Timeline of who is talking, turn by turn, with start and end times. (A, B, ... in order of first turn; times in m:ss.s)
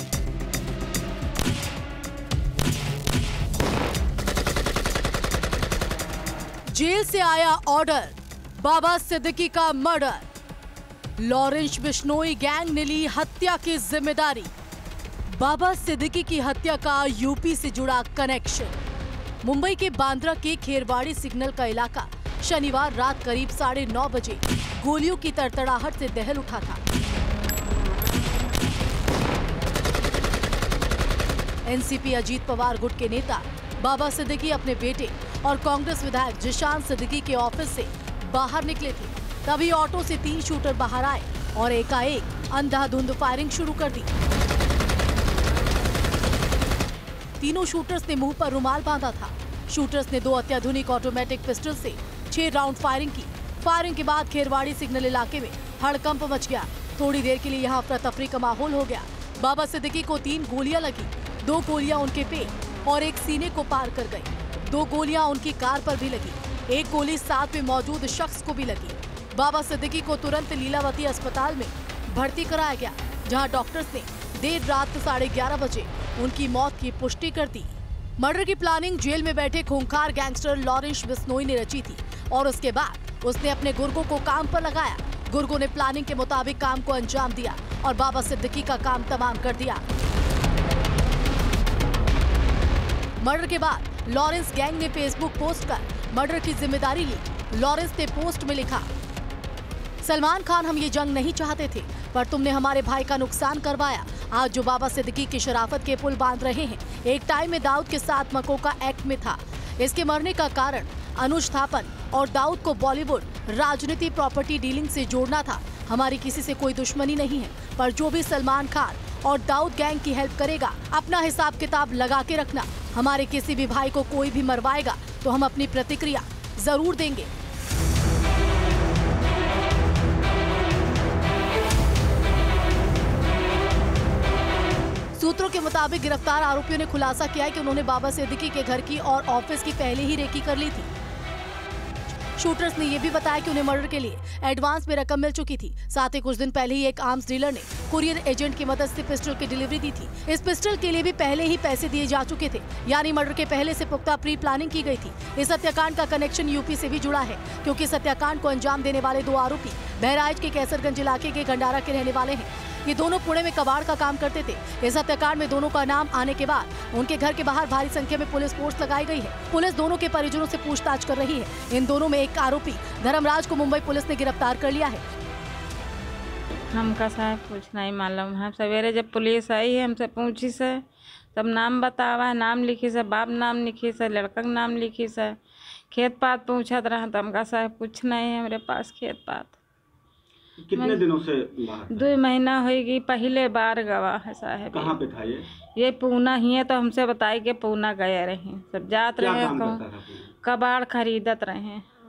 0:06.7-0:10.3 A
0:11.2-0:14.5 A
0:15.3-0:18.7 A
0:19.4-0:26.8 A
0:31.6-0:44.1 A
0:47.4-1:29.8 A
1:33.2-1:38.9 A
1:40.0-2:07.3 A
2:15.2-2:20.9 A
2:22.4-2:55.0 A
2:56.7-3:00.8 B
3:01.3-3:05.4 B
3:05.9-3:09.6 B
3:10.6-3:12.1 C
3:10.8-3:11.0 B
3:11.9-3:15.0 B
3:14.7-3:15.5 C
3:15.8-3:19.8 B
3:19.2-3:20.3 C
3:20.4-3:21.9 B